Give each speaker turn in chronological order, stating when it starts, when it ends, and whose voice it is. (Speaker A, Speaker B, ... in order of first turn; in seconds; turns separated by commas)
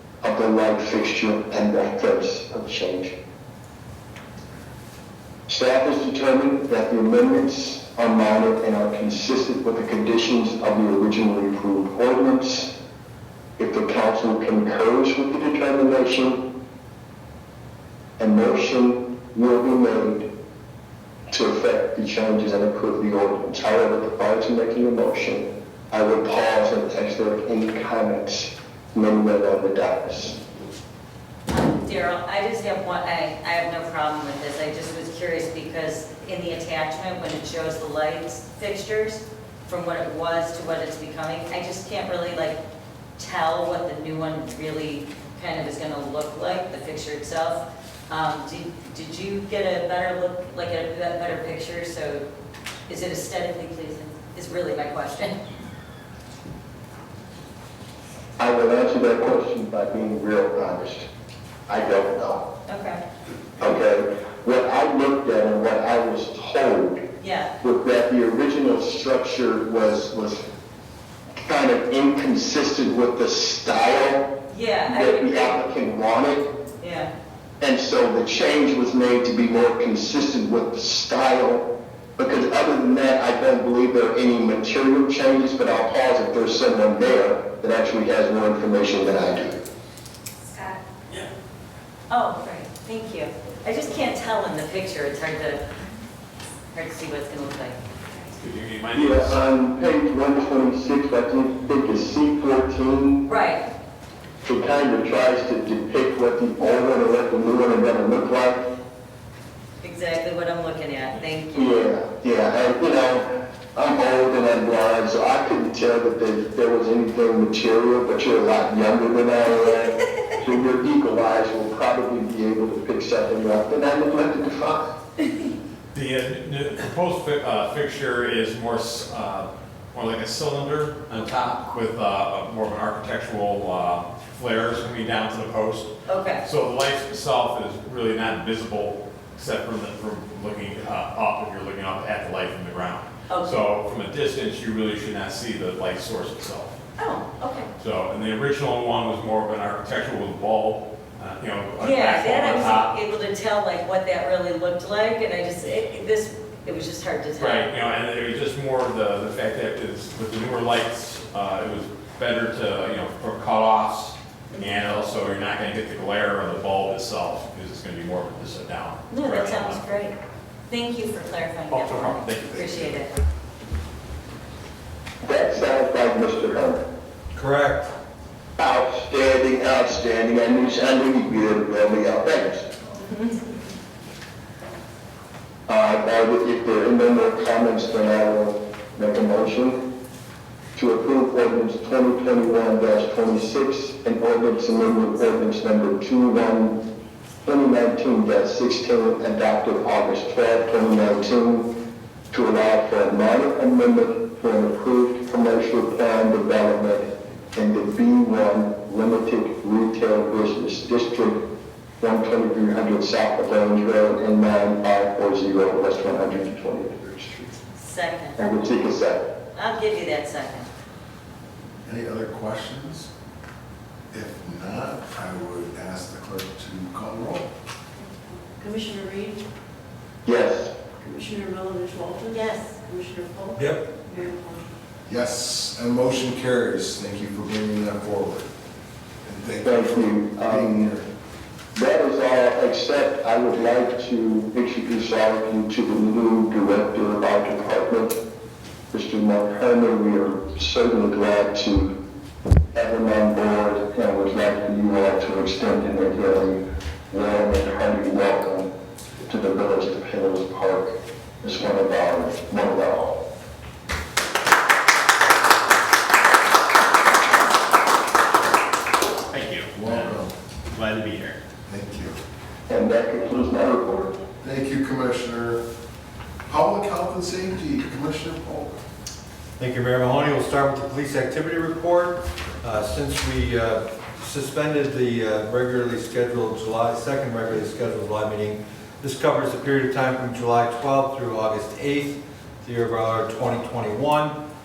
Speaker A: 0.2-3.2, Speaker A: 5.5-12.7, Speaker A: 13.6-16.4, Speaker A: 18.2-20.2, Speaker A: 21.3-30.4, Speaker B: 31.5-42.6, Speaker B: 43.2-52.2, Speaker B: 52.9-55.3, Speaker A: 58.4-61.1, Speaker A: 61.7-62.4, Speaker B: 62.7-63.0, Speaker A: 63.6-67.0, Speaker B: 67.2-67.5, Speaker A: 67.6-70.5, Speaker A: 71.3-74.3, Speaker B: 74.5-75.6, Speaker A: 74.9-76.5, Speaker B: 76.8-77.1, Speaker A: 77.6-81.7, Speaker A: 82.2-89.6, Speaker B: 92.1-95.6, Speaker B: 96.7-97.8, Speaker C: 98.3-99.4, Speaker A: 98.9-103.3, Speaker B: 103.3-103.6, Speaker A: 104.4-108.7, Speaker B: 109.8-111.7, Speaker A: 111.5-124.9, Speaker C: 125.9-135.9, Speaker B: 136.1-136.4, Speaker C: 136.4-146.8, Speaker B: 143.3-143.7, Speaker B: 147.0-147.7, Speaker C: 147.8-152.9, Speaker B: 151.8-157.7, Speaker C: 157.4-169.9, Speaker B: 169.1-170.1, Speaker B: 170.7-173.1, Speaker C: 171.7-172.9, Speaker A: 175.2-176.8, Speaker D: 177.3-177.9, Speaker A: 178.6-182.7, Speaker A: 185.7-189.8, Speaker A: 190.8-196.8, Speaker A: 197.4-201.7, Speaker A: 202.3-211.4, Speaker A: 212.0-217.5, Speaker B: 217.8-218.4, Speaker A: 218.4-219.2, Speaker B: 219.6-220.7, Speaker E: 221.9-223.1, Speaker E: 224.1-227.5, Speaker F: 228.6-229.4, Speaker A: 230.2-230.7, Speaker F: 231.0-234.7, Speaker D: 233.6-233.8, Speaker E: 235.1-238.5, Speaker E: 239.3-241.1, Speaker A: 239.6-240.9, Speaker A: 241.8-248.2, Speaker A: 248.9-251.9, Speaker A: 252.7-256.6, Speaker A: 257.1-258.7, Speaker A: 259.2-263.2, Speaker C: 269.3-270.1, Speaker E: 269.7-270.3, Speaker C: 270.8-271.2, Speaker E: 271.7-272.2, Speaker A: 272.7-274.1, Speaker E: 274.4-275.6, Speaker E: 276.5-278.8, Speaker D: 279.6-294.4